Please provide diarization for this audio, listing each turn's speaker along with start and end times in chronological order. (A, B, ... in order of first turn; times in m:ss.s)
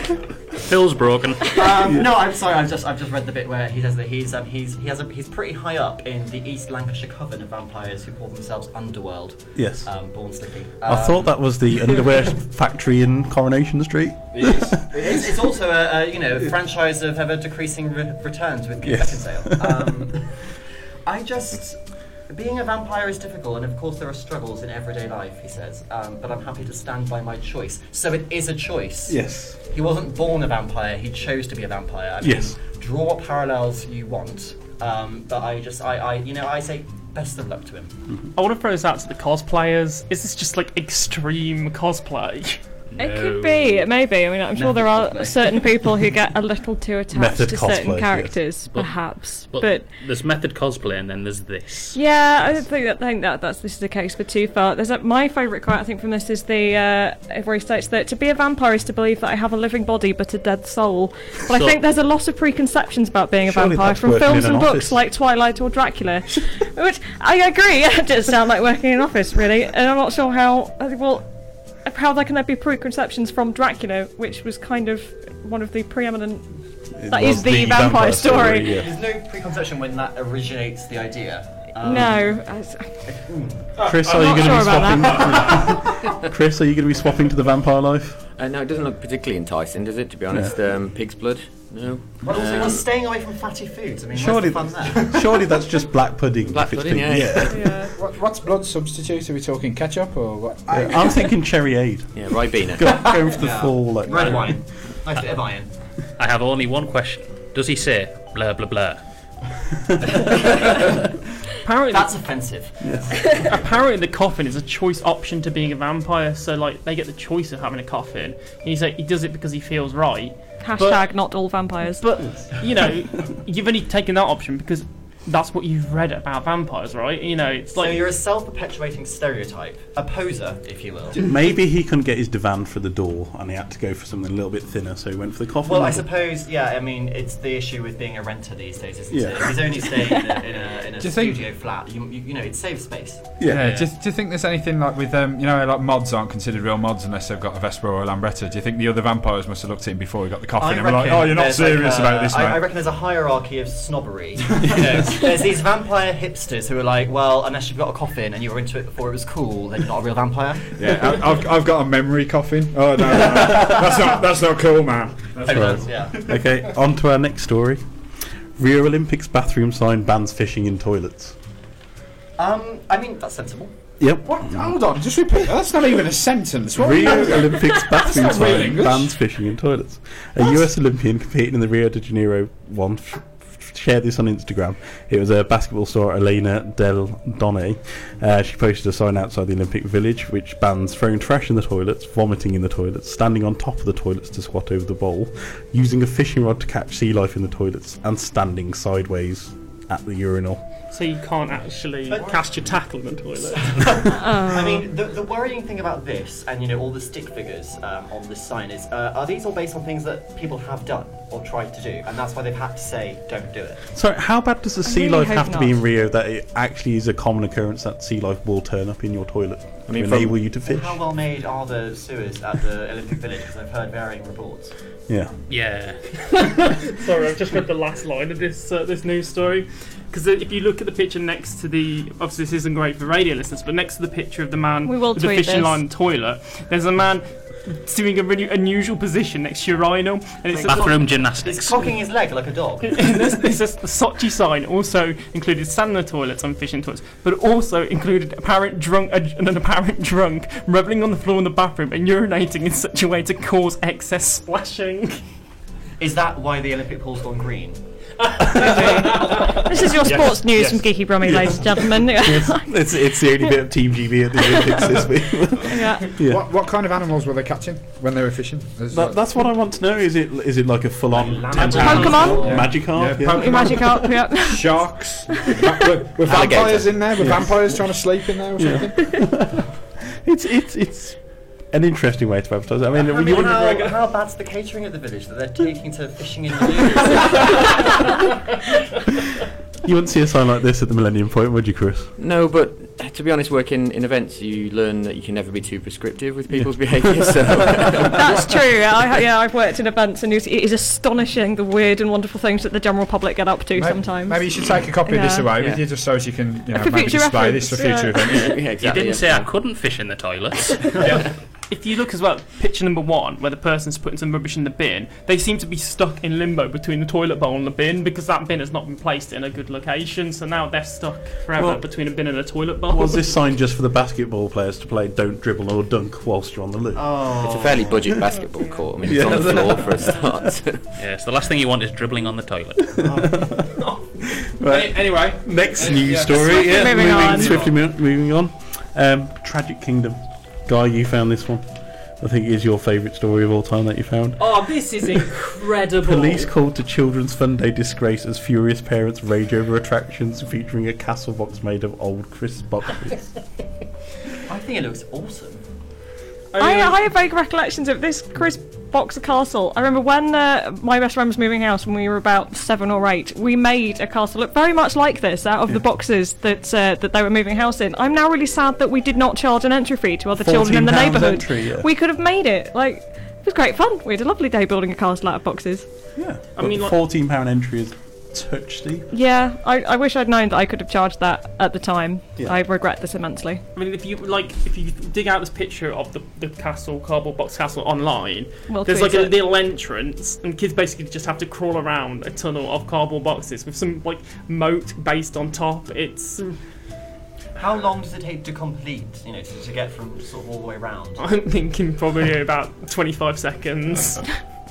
0:00.5-0:01.6 A
0:01.5-0:11.3 B
0:01.9-0:02.1 C
0:09.5-0:09.9 C
0:10.8-0:15.0 C
0:14.4-0:15.2 D
0:14.4-0:20.5 B
0:18.8-0:19.9 C
0:21.0-0:38.0 B
0:29.1-0:29.6 C
0:32.2-0:32.6 C
0:38.4-0:42.6 E
0:42.9-0:43.9 A
0:43.0-0:49.9 F
0:44.5-0:45.9 B
0:47.1-0:48.4 C
0:48.7-0:52.6 A
0:51.9-1:11.3 F
1:01.5-1:01.8 A
1:03.4-1:05.0 C
1:11.8-1:16.5 F
1:17.0-1:19.0 C
1:17.1-1:18.8 F
1:18.7-1:22.2 B
1:21.8-1:22.9 F
1:23.1-1:23.7 B
1:23.8-1:28.2 C
1:23.9-1:25.6 F
1:28.4-1:32.8 G
1:32.2-1:35.2 B
1:34.1-1:37.7 C
1:36.4-1:37.7 G
1:37.5-1:37.9 F
1:38.0-1:41.3 D
1:40.7-1:44.6 C
1:42.1-1:43.0 G
1:43.3-1:45.7 B
1:46.2-1:49.0 A
1:51.6-1:52.2 E
1:51.9-1:53.4 B
1:52.8-1:53.3 C
1:53.4-2:01.1 E
2:00.6-2:02.0 F
2:01.9-2:08.0 E
2:07.8-2:11.2 B
2:11.2-2:16.1 C
2:15.6-2:23.8 B
2:19.1-2:19.9 C
2:20.1-2:20.4 F
2:21.0-2:21.4 D
2:23.4-2:23.7 C
2:23.4-2:32.6 D
2:30.6-2:40.8 B
2:34.6-2:34.9 D
2:40.8-2:45.7 D
2:45.4-2:46.3 B
2:45.4-2:47.8 C
2:48.6-2:51.4 C
2:52.4-2:53.7 B
2:54.0-2:54.7 C
2:54.2-2:59.1 D
2:56.8-3:20.6 C
3:20.9-3:24.0 E
3:22.1-3:22.7 B
3:23.6-3:33.8 B
3:24.1-3:24.9 F
3:33.9-3:41.0 C
3:34.8-3:35.8 F
3:39.9-3:40.4 G
3:40.6-3:44.7 B
3:45.5-3:46.0 A
3:46.3-4:01.0 E
3:54.8-3:55.8 F
4:00.6-4:03.0 B
4:00.6-4:01.8 A
4:02.8-4:15.2 E
4:16.0-4:17.8 B
4:18.5-4:19.4 D
4:18.8-4:23.5 F
4:20.0-4:20.8 D
4:22.1-4:26.4 C
4:24.4-4:24.9 F
4:25.6-4:26.1 F
4:26.1-4:29.2 D
4:28.9-4:33.6 C
4:31.1-4:32.7 B
4:31.6-4:32.7 F
4:32.4-4:39.0 D
4:33.3-4:35.7 F
4:36.2-4:37.5 G
4:37.2-4:37.6 C
4:38.6-4:43.9 C
4:43.0-4:47.9 B
4:49.8-4:52.1 C
4:52.2-4:58.4 G
4:56.5-4:57.9 C
4:58.1-5:05.5 F
5:03.7-5:08.5 D
5:06.7-5:08.5 F
5:08.3-5:09.5 G
5:08.8-5:11.0 A
5:11.0-5:11.3 D
5:11.7-5:23.3 E
5:21.6-5:21.8 C
5:22.9-5:27.2 C
5:26.9-5:28.0 B
5:27.4-5:30.8 G
5:29.0-5:30.4 C
5:31.0-5:33.0 A
5:33.0-5:33.5 B
5:33.4-5:33.7 C
5:34.4-5:41.6 C
5:34.6-5:37.7 D
5:36.3-5:37.6 F
5:42.2-5:44.5 C
5:44.4-5:46.5 E
5:46.0-5:53.2 C
5:54.4-5:55.6 B
5:56.5-5:56.9 E
5:56.5-6:15.9 F
6:10.4-6:11.9 C
6:16.2-6:19.1 C
6:16.5-6:17.0 E
6:19.1-6:23.6 F
6:23.7-6:36.6 E
6:28.7-6:29.4 F
6:37.5-6:41.2 B
6:41.2-6:44.3 E